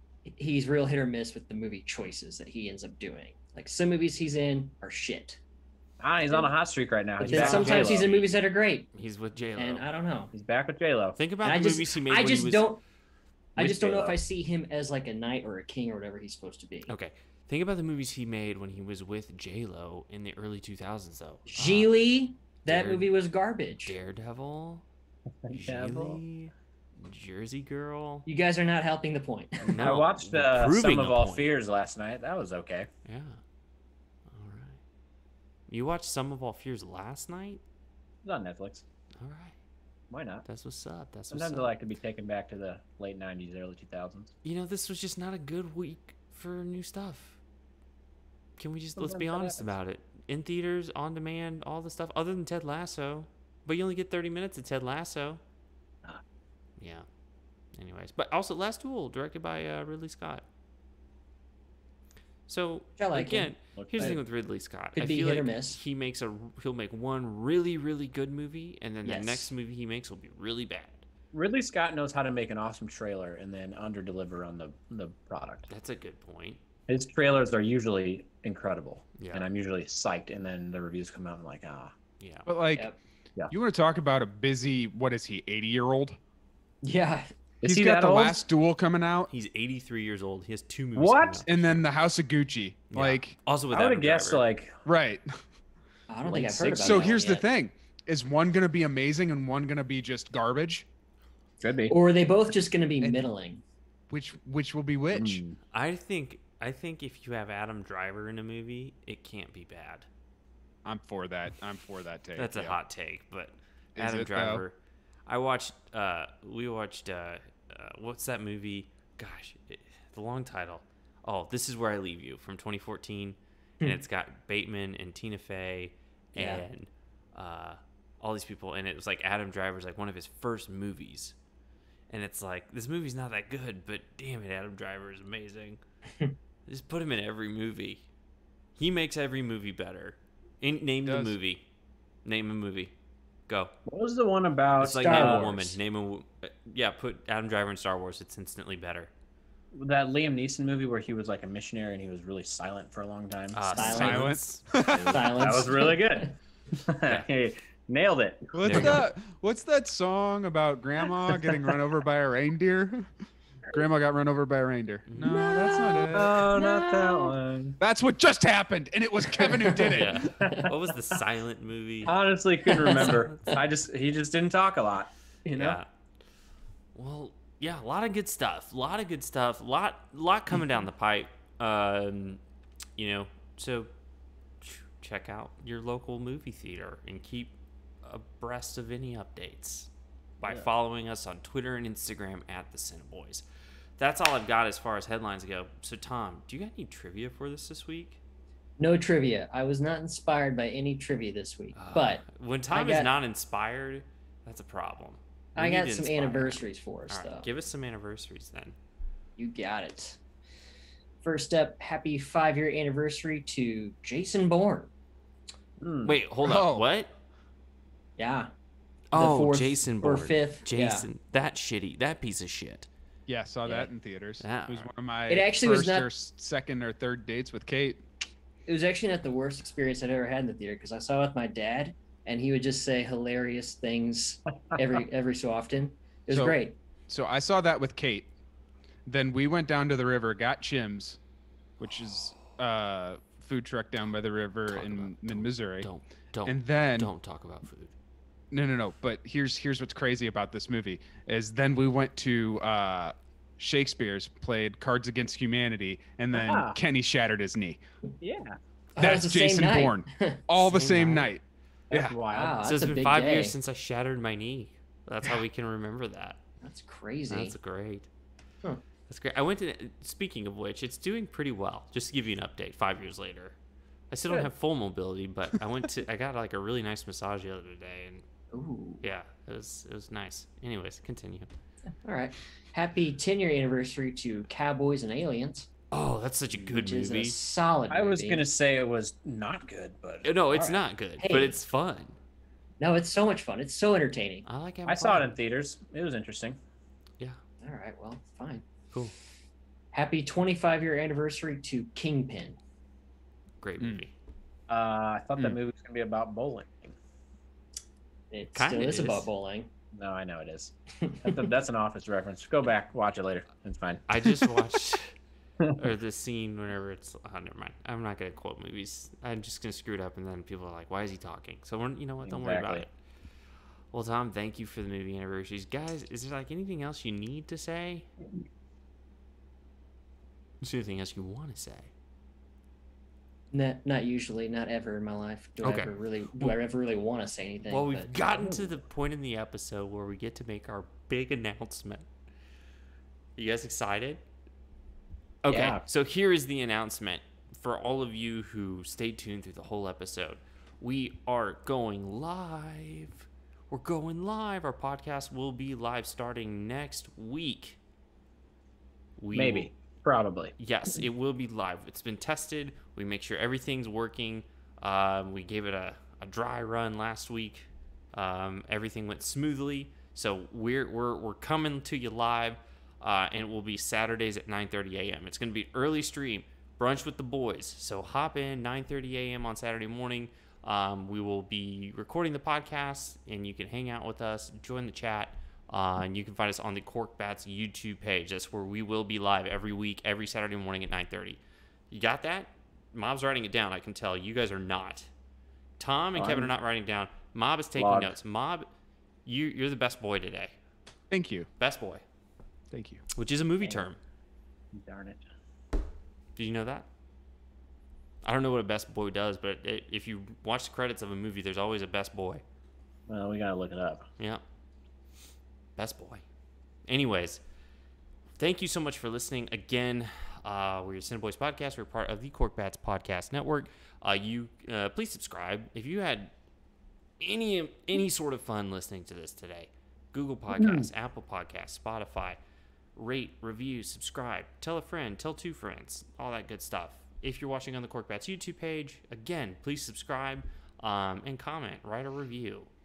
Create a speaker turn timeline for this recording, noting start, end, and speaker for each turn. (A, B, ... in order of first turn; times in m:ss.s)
0:00.2-0:05.4 A
0:06.0-0:08.1 B
0:07.2-0:08.9 A
0:07.2-0:08.3 C
0:08.9-0:09.8 C
0:09.6-0:10.3 A
0:10.3-0:11.2 B
0:11.2-0:12.7 C
0:11.4-0:12.8 A
0:13.6-0:14.2 B
0:13.6-0:16.9 A
0:16.9-0:21.9 C
0:21.5-0:23.9 A
0:22.7-0:23.1 C
0:23.8-0:24.8 C
0:25.4-0:26.2 B
0:25.5-0:28.2 C
0:28.2-0:29.7 A
0:29.6-0:31.5 C
0:29.8-0:32.9 B
0:33.0-0:33.4 C
0:34.3-0:34.8 C
0:35.7-0:37.6 C
0:38.2-0:38.8 B
0:39.2-0:39.5 C
0:40.1-0:40.4 B
0:40.4-0:41.7 C
0:41.3-0:44.3 B
0:44.4-0:47.4 C
0:48.6-0:55.4 C
0:49.0-0:49.7 B
0:56.8-0:57.0 C
0:57.7-1:00.4 C
1:02.5-1:11.0 C
1:03.0-1:03.5 A
1:03.7-1:04.2 B
1:05.0-1:05.8 A
1:09.0-1:09.5 A
1:11.3-1:15.7 B
1:15.7-1:16.6 C
1:16.9-1:21.9 B
1:19.2-1:19.5 C
1:22.2-1:22.5 C
1:22.5-1:22.9 D
1:23.5-1:26.2 D
1:26.8-1:27.3 A
1:27.6-1:28.4 B
1:27.6-1:29.3 D
1:29.3-1:31.8 C
1:31.0-1:31.4 B
1:31.4-1:33.3 D
1:32.9-1:34.4 C
1:33.7-1:34.7 B
1:34.8-1:35.2 D
1:36.1-1:37.4 A
1:36.2-1:37.1 B
1:36.6-1:40.9 D
1:41.6-1:41.9 B
1:41.9-1:43.6 A
1:44.1-1:45.4 D
1:45.1-1:45.6 B
1:45.7-1:50.1 C
1:50.8-1:52.8 D
1:52.4-1:54.7 C
1:54.0-1:54.6 D
1:55.3-2:11.4 C
2:06.3-2:06.6 A
2:12.1-2:15.8 C
2:16.7-2:18.0 C
2:18.8-2:21.6 C
2:21.0-2:21.4 D
2:22.2-2:22.9 C
2:23.8-2:25.7 B
2:24.8-2:29.1 C
2:25.0-2:25.6 A
2:29.7-2:34.3 B
2:33.5-2:34.6 C
2:33.7-2:34.3 A
2:33.8-2:35.7 D
2:34.9-2:39.0 B
2:35.0-2:36.3 A
2:38.5-2:43.1 D
2:38.6-2:39.0 C
2:43.7-2:46.5 D
2:45.1-2:45.4 C
2:46.1-2:47.8 B
2:46.6-2:47.2 A
2:47.8-2:50.3 D
2:49.4-2:50.7 A
2:49.9-2:52.2 C
2:50.3-2:50.7 B
2:52.0-2:55.8 B
2:52.7-2:53.6 A
2:52.9-2:53.5 C
2:55.5-2:55.9 C
2:56.9-3:02.4 C
3:03.0-3:03.9 C
3:04.6-3:13.4 C
3:14.0-3:18.2 C
3:18.8-3:23.1 A
3:21.7-3:28.8 C
3:25.6-3:27.5 A
3:29.4-3:30.2 A
3:31.2-3:34.9 A
3:35.8-3:36.2 B
3:36.0-3:37.1 C
3:36.4-3:36.8 D
3:38.2-3:38.5 A
3:39.1-3:42.9 C
3:39.1-3:41.1 A
3:43.3-3:48.0 D
3:44.4-3:44.9 C
3:45.3-3:46.1 A
3:48.7-3:56.8 A
3:56.3-3:58.3 D
3:59.0-4:01.2 D
4:01.8-4:05.9 D
4:02.1-4:02.4 C
4:04.7-4:07.9 C
4:06.4-4:07.1 D
4:08.5-4:17.8 D
4:16.3-4:16.8 B
4:18.2-4:18.6 B
4:19.0-4:20.4 A
4:19.0-4:22.1 D
4:20.6-4:21.3 C
4:21.9-4:22.6 B
4:22.3-4:23.6 A
4:22.6-4:26.4 C
4:26.6-4:27.6 A
4:27.3-4:28.1 C
4:29.1-4:33.6 C
4:34.1-4:38.2 C
4:38.5-4:39.0 A
4:39.0-4:41.5 C
4:42.0-4:45.7 A
4:45.9-4:47.4 C
4:46.7-4:48.4 A
4:47.9-4:50.8 B
4:50.2-4:52.2 C
4:51.2-4:51.6 A
4:52.8-4:54.4 A
4:54.4-4:55.3 C
4:54.8-4:56.6 B
4:57.6-4:58.6 A
4:59.9-5:02.6 A
5:03.6-5:04.1 C
5:04.7-5:06.9 B
5:08.3-5:09.7 A
5:08.5-5:09.3 C
5:09.9-5:14.6 B
5:11.0-5:11.4 A
5:14.1-5:15.1 C
5:15.8-5:22.9 C
5:22.2-5:22.8 B
5:23.9-5:28.1 C
5:30.6-5:31.9 C
5:33.5-5:38.1 A
5:35.6-5:36.6 C
5:37.7-5:42.0 C
5:38.3-5:38.8 B
5:43.4-5:44.2 C
5:45.4-5:57.8 C
5:45.5-5:45.8 B
5:59.2-5:59.7 C
5:59.3-6:00.5 B
6:00.6-6:31.4 C
6:31.9-6:35.1 C
6:35.8-6:38.7 C
6:36.2-6:36.5 B
6:37.8-6:38.1 B
6:39.2-6:40.5 C
6:41.1-6:41.5 D
6:41.6-6:42.0 C
6:42.7-6:43.0 D
6:43.1-6:44.0 C
6:44.7-6:45.2 B
6:46.4-6:46.9 C
6:48.2-6:52.4 C
6:53.1-6:54.0 B
6:55.8-6:56.2 C
6:56.9-6:57.4 C
6:58.4-7:06.3 C
7:07.2-7:12.4 C
7:10.5-7:10.9 B
7:13.0-7:22.7 C